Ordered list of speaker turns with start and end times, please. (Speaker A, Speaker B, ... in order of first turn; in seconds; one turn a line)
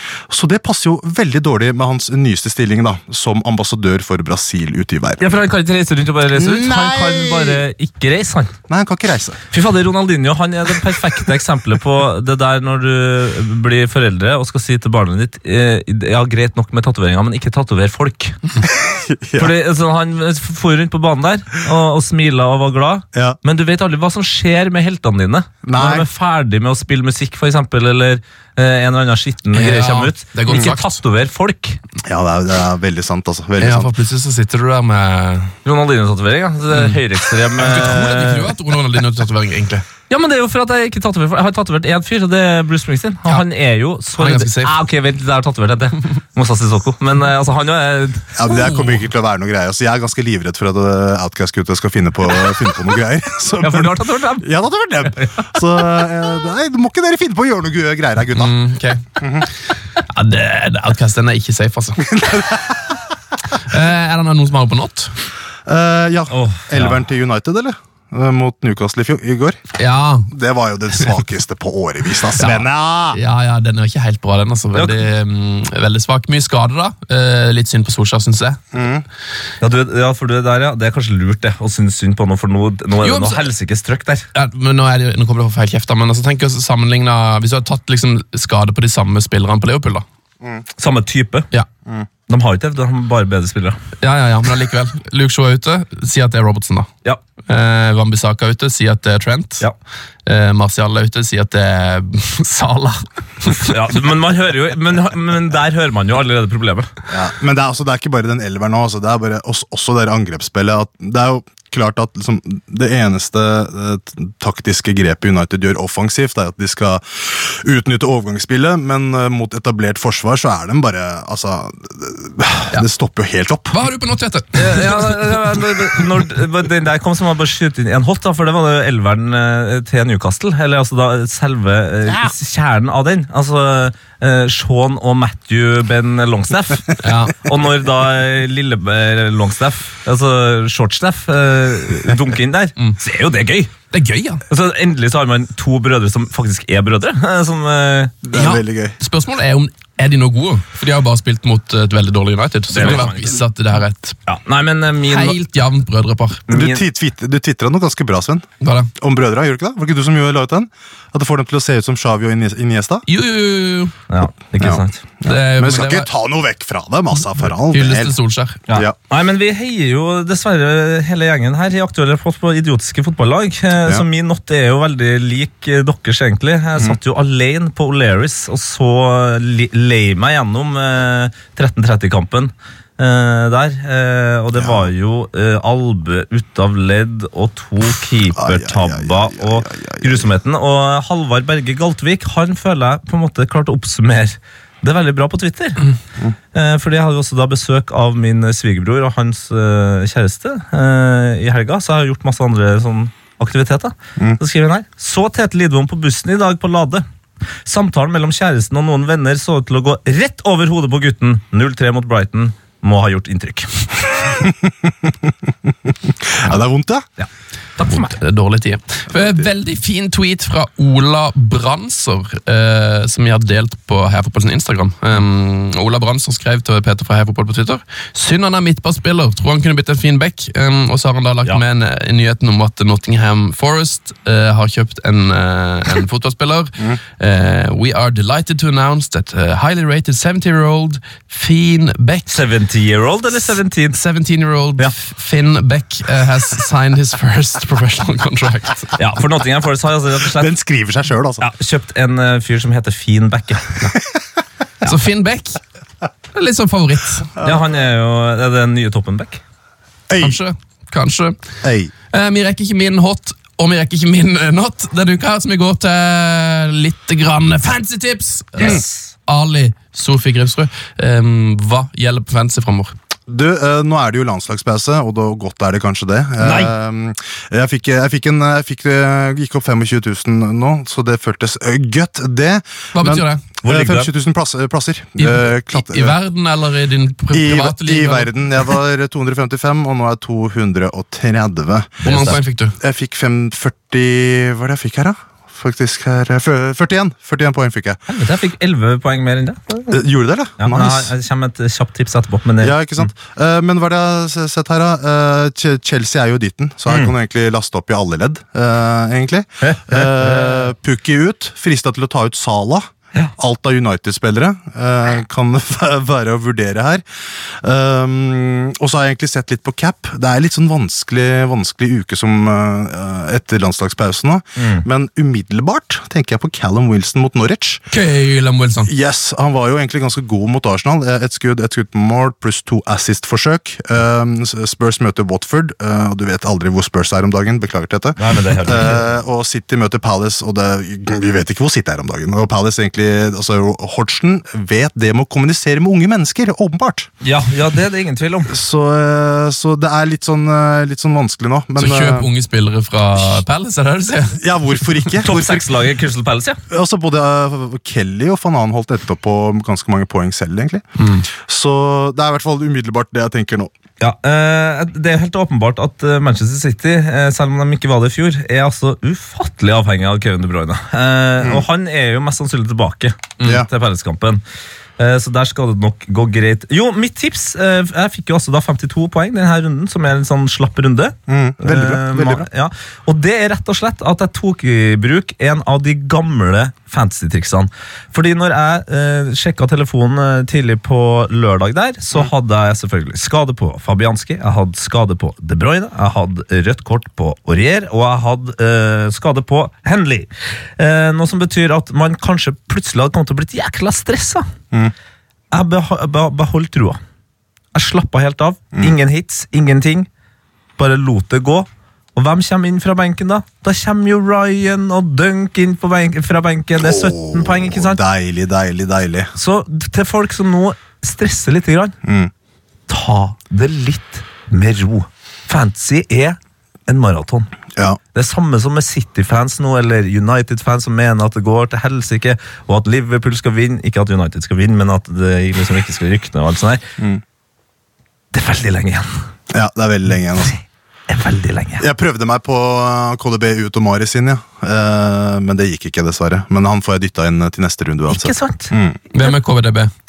Speaker A: 0.3-5.2
Speaker B: 5.2-8.5
Speaker A: 6.3-7.6
Speaker A: 8.7-9.4
Speaker B: 9.5-18.4
Speaker A: 18.6-19.5
Speaker B: 19.4-31.8
Speaker A: 25.6-26.1
Speaker C: 29.5-31.0
Speaker A: 32.1-33.9
Speaker C: 33.6-35.5
Speaker B: 35.6-38.6
Speaker C: 36.7-37.0
Speaker C: 37.6-39.9
Speaker B: 40.1-48.3
Speaker C: 44.2-44.8
Speaker A: 48.4-58.5
Speaker C: 48.5-49.1
Speaker B: 53.6-55.5
Speaker C: 58.4-59.0
Speaker A: 59.2-59.5
Speaker C: 60.0-62.2
Speaker A: 62.2-62.8
Speaker C: 63.5-65.1
Speaker A: 65.7-69.6
Speaker B: 66.3-67.0
Speaker C: 69.8-70.3
Speaker A: 70.3-73.2
Speaker C: 72.3-78.6
Speaker B: 74.8-75.0
Speaker A: 78.7-79.0
Speaker B: 79.6-84.3
Speaker C: 83.0-83.5
Speaker C: 84.3-90.0
Speaker B: 90.8-91.5
Speaker B: 92.3-93.8
Speaker C: 94.0-96.9
Speaker C: 97.5-99.7
Speaker C: 100.3-103.7
Speaker B: 103.7-106.9
Speaker A: 107.1-123.8
Speaker C: 123.7-125.5
Speaker B: 124.5-143.7
Speaker C: 137.0-137.4
Speaker C: 143.9-144.4
Speaker B: 144.5-148.2
Speaker A: 148.2-149.0
Speaker C: 148.3-154.2
Speaker B: 152.7-153.4
Speaker B: 154.3-155.4
Speaker C: 155.1-156.4
Speaker B: 156.5-156.9
Speaker A: 156.5-158.4
Speaker C: 158.6-158.9
Speaker A: 159.0-163.1
Speaker C: 163.1-163.9
Speaker B: 164.1-165.0
Speaker A: 164.6-168.2
Speaker C: 165.2-166.1
Speaker C: 167.3-168.6
Speaker B: 168.7-195.9
Speaker A: 168.7-168.9
Speaker A: 184.6-184.9
Speaker A: 188.4-190.3
Speaker B: 196.5-207.1
Speaker B: 207.7-214.3
Speaker A: 214.3-215.3
Speaker A: 216.0-217.0
Speaker B: 217.2-218.2
Speaker C: 217.9-242.4
Speaker A: 219.1-219.4
Speaker B: 242.3-244.0
Speaker C: 243.9-248.9
Speaker B: 249.0-250.6
Speaker A: 250.3-251.4
Speaker B: 251.4-253.9
Speaker C: 254.8-255.6
Speaker C: 256.3-257.3
Speaker B: 257.4-259.4
Speaker A: 260.1-260.4
Speaker C: 260.2-261.4
Speaker A: 261.6-261.9
Speaker C: 262.1-272.9
Speaker B: 268.6-268.9
Speaker A: 273.3-286.2
Speaker B: 276.4-276.8
Speaker C: 282.9-283.4
Speaker B: 283.6-284.1
Speaker C: 285.2-288.3
Speaker A: 287.3-298.0
Speaker C: 292.0-292.8
Speaker B: 298.1-300.0
Speaker A: 299.9-301.1
Speaker B: 300.6-303.1
Speaker A: 302.6-317.0
Speaker B: 306.9-307.1
Speaker B: 309.6-310.7
Speaker A: 317.6-327.8
Speaker B: 324.6-324.9
Speaker C: 327.9-328.9
Speaker A: 328.9-347.1
Speaker B: 338.2-339.1
Speaker B: 347.2-348.5
Speaker A: 348.5-352.3
Speaker C: 351.8-355.1
Speaker A: 354.4-355.7
Speaker B: 355.2-356.6
Speaker A: 356.7-360.8
Speaker C: 361.0-361.3
Speaker A: 361.3-363.7
Speaker B: 364.0-374.4
Speaker A: 371.4-371.6
Speaker A: 373.4-373.7
Speaker B: 375.0-404.4
Speaker A: 381.3-382.5
Speaker B: 405.5-407.0
Speaker B: 407.7-410.1
Speaker B: 410.8-418.0
Speaker A: 416.8-419.3
Speaker B: 419.4-422.0
Speaker A: 422.0-422.3
Speaker B: 422.9-427.5
Speaker B: 428.1-436.8
Speaker B: 438.3-439.1
Speaker A: 439.5-440.6
Speaker B: 441.1-441.9
Speaker A: 441.8-449.0
Speaker B: 448.1-448.7
Speaker C: 449.1-449.9